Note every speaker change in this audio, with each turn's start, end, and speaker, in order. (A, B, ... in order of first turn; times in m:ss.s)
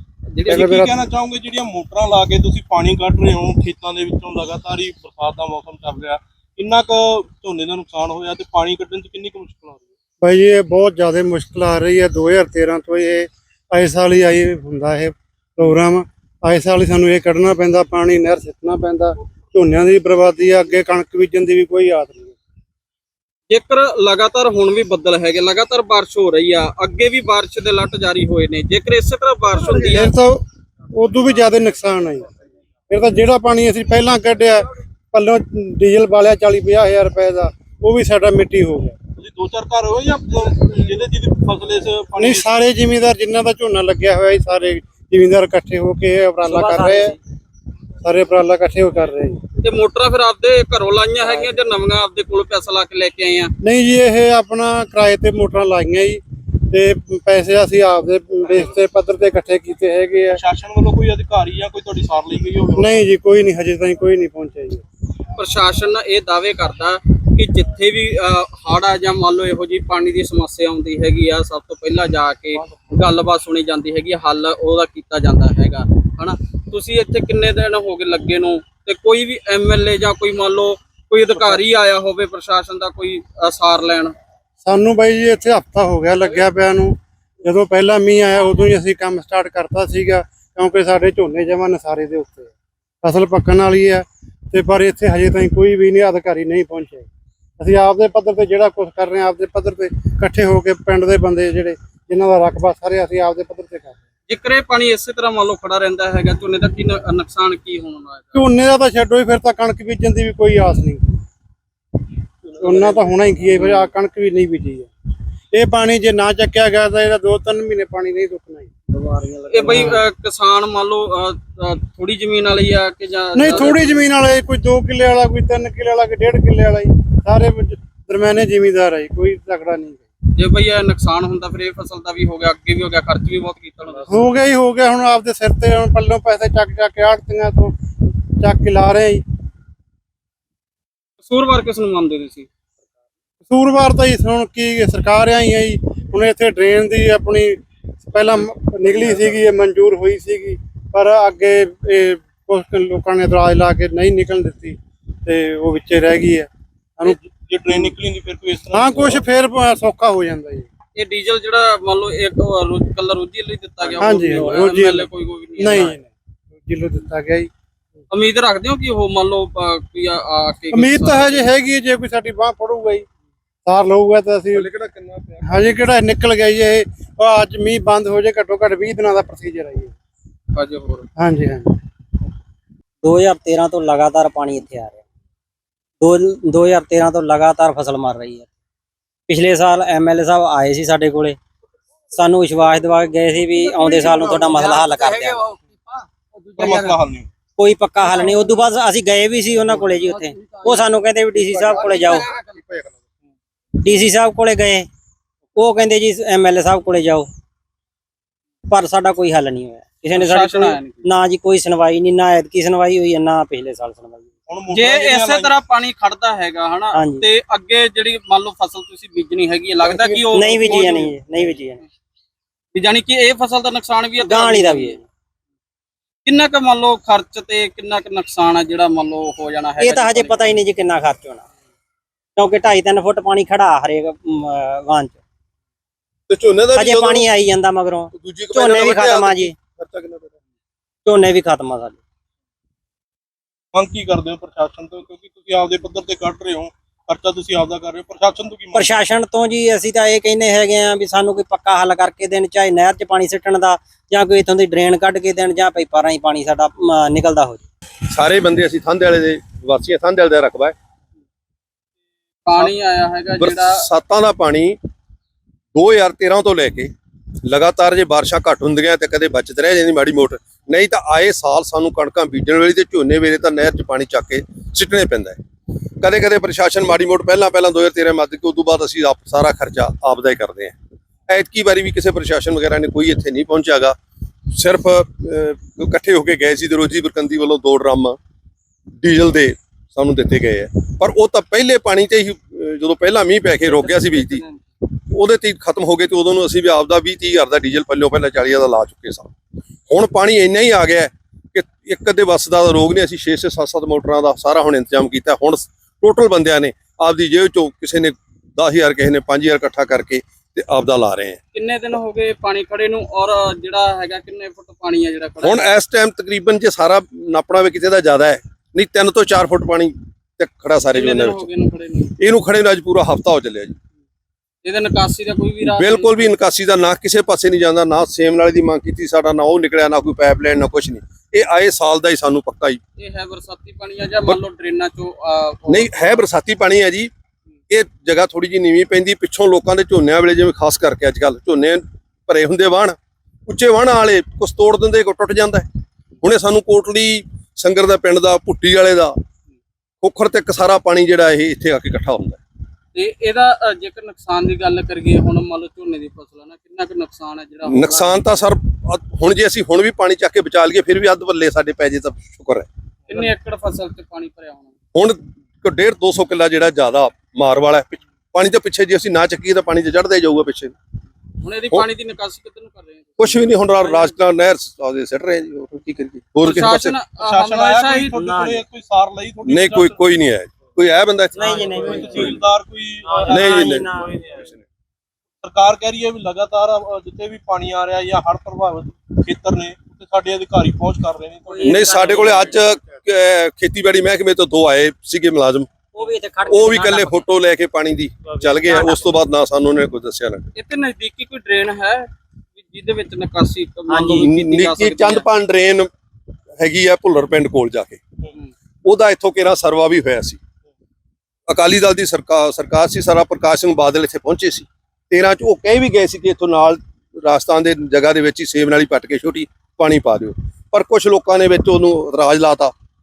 0:00.4-0:00.6 A
0:00.4-0:01.1 B
0:00.5-0:09.9 C
0:10.2-0:22.4 B
0:23.5-0:30.1 A
0:29.8-0:30.4 B
0:30.9-0:32.3 B
0:32.9-0:39.0 B
0:39.2-0:42.6 C
0:42.2-0:47.2 B
0:46.4-0:47.2 D
0:48.0-0:49.4 B
0:49.6-0:53.5 A
0:53.6-1:00.4 B
1:00.3-1:03.1 C
1:02.8-1:04.8 B
1:05.4-1:24.2 A
1:12.5-1:12.9 C
1:21.3-1:21.6 B
1:24.6-1:32.5 B
1:33.0-1:37.1 B
1:37.6-1:44.0 B
1:44.3-1:48.4 A
1:48.3-1:51.2 B
1:52.6-1:54.9 B
1:52.8-1:53.1 C
1:55.5-1:58.7 B
1:58.9-2:00.0 D
1:59.5-2:04.0 A
1:59.6-2:00.0 B
2:03.4-2:10.0 B
2:10.4-2:14.3 A
2:14.1-2:17.8 B
2:18.4-2:19.2 B
2:21.2-2:22.5 A
2:23.5-2:37.9 B
2:37.0-2:39.2 C
2:38.7-2:40.7 B
2:41.0-2:46.0 A
2:44.0-2:46.1 B
2:46.6-2:47.5 B
2:48.1-2:51.5 A
2:50.7-2:53.1 B
2:53.6-2:54.7 B
2:54.5-2:55.8 C
2:55.4-2:59.9 B
3:00.5-3:01.1 A
3:01.2-3:01.8 B
3:03.0-3:05.0 D
3:06.0-3:08.5 D
3:09.3-3:11.4 D
3:12.1-3:15.5 D
3:16.6-3:17.3 C
3:17.6-3:22.3 D
3:23.8-3:24.9 D
3:25.6-3:27.3 D
3:28.7-3:34.3 D
3:30.1-3:31.1 A
3:34.5-3:35.6 C
3:34.7-3:41.0 A
3:36.9-3:37.3 D
3:39.8-3:41.1 C
3:40.4-3:41.8 D
3:42.7-3:45.0 A
3:44.2-3:45.0 D
3:46.2-3:50.6 A
3:49.8-3:51.4 D
3:52.4-3:55.2 D
3:56.3-3:57.3 E
3:56.7-3:59.6 D
3:58.1-4:00.4 E
4:01.0-4:02.0 D
4:03.7-4:09.0 C
4:08.7-4:17.6 D
4:18.1-4:20.8 E
4:22.4-4:23.8 A
4:23.4-4:24.8 E
4:25.7-4:26.9 E
4:27.4-4:35.4 E
4:36.0-4:40.7 E
4:41.3-4:44.0 E
4:44.5-4:48.2 E
4:49.0-4:59.3 E
4:53.7-4:54.6 A
4:59.9-5:11.4 E
5:11.5-5:15.7 A
5:15.4-5:21.5 E
5:20.9-5:22.2 A
5:22.2-5:23.8 E
5:24.6-5:26.3 A
5:25.6-5:32.8 E
5:33.0-5:36.2 A
5:35.7-5:37.1 E
5:37.7-5:45.7 E
5:46.2-5:49.2 E
5:50.0-5:52.4 E
5:52.9-5:58.4 A
5:57.7-6:02.7 E
6:03.1-6:04.7 A
6:04.9-6:10.8 E
6:11.4-6:14.2 A
6:13.2-6:17.0 E
6:16.4-6:18.1 A
6:17.1-6:20.0 C
6:18.1-6:18.6 D
6:19.5-6:21.6 E
6:21.3-6:22.3 D
6:21.4-6:23.6 C
6:23.0-6:24.4 D
6:23.3-6:24.6 E
6:25.4-6:32.1 C
6:31.5-6:32.8 D
6:31.6-6:35.7 E
6:35.9-6:37.3 D
6:36.5-6:40.5 E
6:38.3-6:39.1 D
6:40.6-6:42.1 A
6:42.6-6:45.3 A
6:43.9-6:44.3 D
6:44.2-6:45.9 E
6:46.6-6:48.0 E
6:48.8-6:50.4 E
6:51.5-7:02.7 E